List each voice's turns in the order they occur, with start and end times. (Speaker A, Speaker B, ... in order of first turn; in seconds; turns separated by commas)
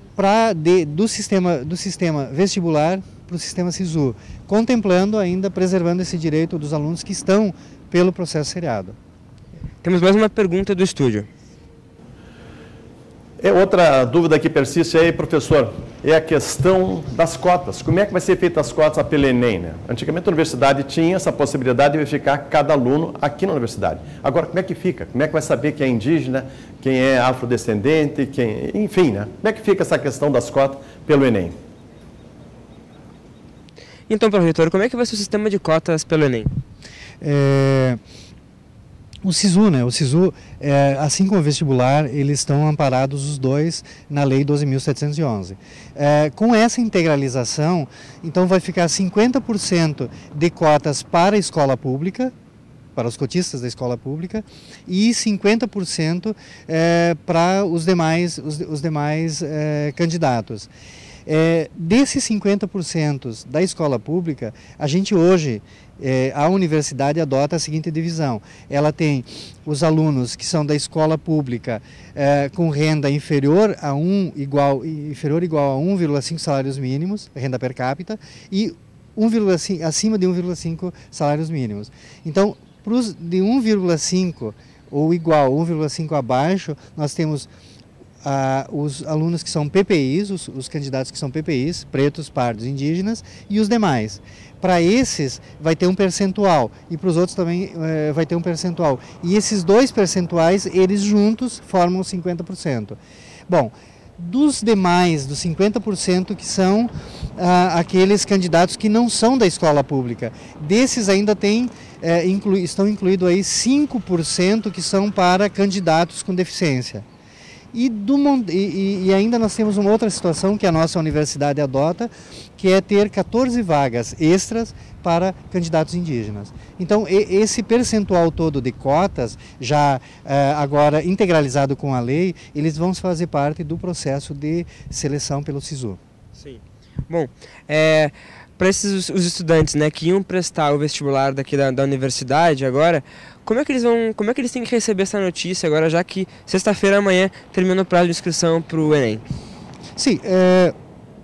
Speaker A: 0.1-9.0, Speaker B: 9.8-11.3, Speaker C: 13.4-31.6, Speaker B: 34.1-36.5, Speaker A: 37.2-38.0, Speaker A: 39.2-52.3, Speaker A: 53.0-60.7, Speaker A: 61.2-87.5, Speaker A: 88.2-117.0, Speaker A: 117.7-136.0, Speaker B: 136.3-149.2, Speaker A: 149.9-150.7